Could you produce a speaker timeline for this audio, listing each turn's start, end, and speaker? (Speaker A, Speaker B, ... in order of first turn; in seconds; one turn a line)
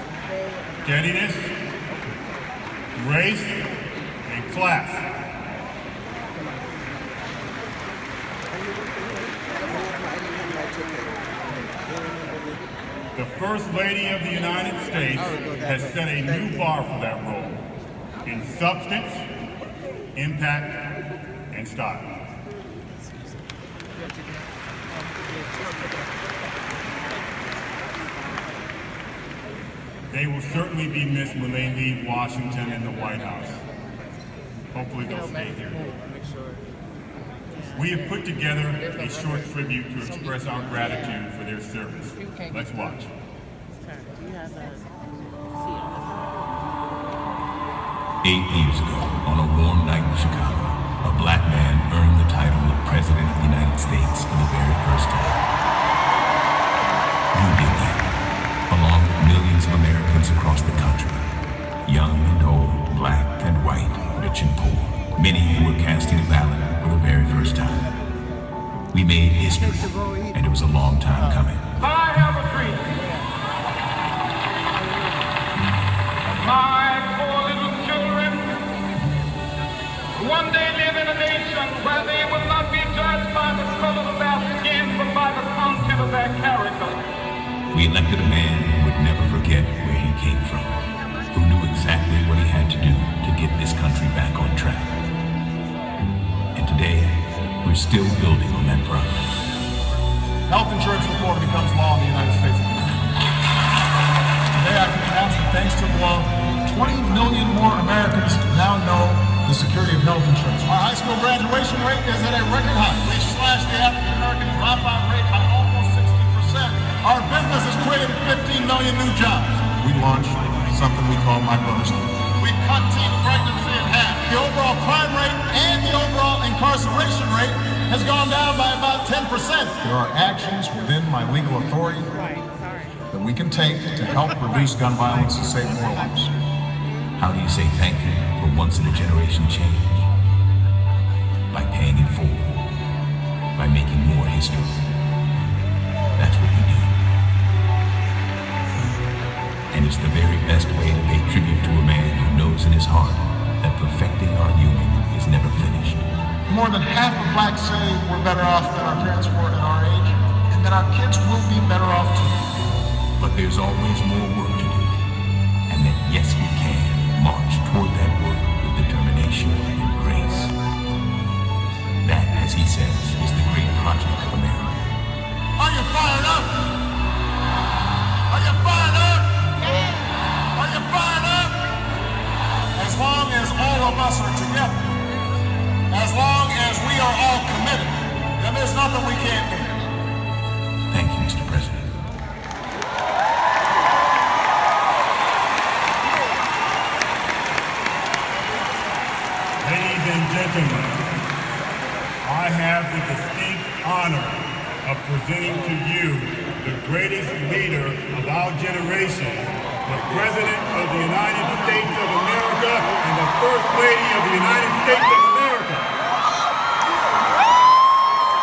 Speaker A: 0.8-1.5
Speaker A: 3.0-3.7
Speaker A: 4.3-5.1
Speaker A: 13.2-17.6
Speaker A: 18.2-19.3
Speaker A: 20.1-20.9
Speaker A: 21.5-22.1
Speaker A: 30.1-33.6
Speaker A: 34.7-35.9
Speaker A: 37.7-43.1
Speaker B: 48.2-55.4
Speaker B: 57.3-58.1
Speaker B: 58.7-61.3
Speaker B: 61.9-67.9
Speaker B: 68.9-71.8
Speaker C: 71.8-73.0
Speaker C: 76.3-78.5
Speaker C: 80.2-87.0
Speaker B: 87.7-90.8
Speaker B: 91.3-95.0
Speaker B: 96.5-99.2
Speaker D: 100.5-103.0
Speaker D: 104.5-132.1
Speaker D: 133.1-136.3
Speaker B: 137.2-140.1
Speaker B: 141.5-142.6
Speaker B: 143.6-144.8
Speaker B: 146.2-146.9
Speaker B: 149.7-156.0
Speaker D: 156.5-162.4
Speaker B: 163.2-165.0
Speaker B: 165.7-170.6
Speaker B: 172.0-174.8
Speaker D: 175.6-176.6
Speaker D: 178.3-179.3
Speaker D: 180.6-181.6
Speaker D: 182.8-184.8
Speaker D: 185.9-189.7
Speaker B: 190.9-191.9
Speaker A: 199.6-201.0
Speaker A: 202.2-215.9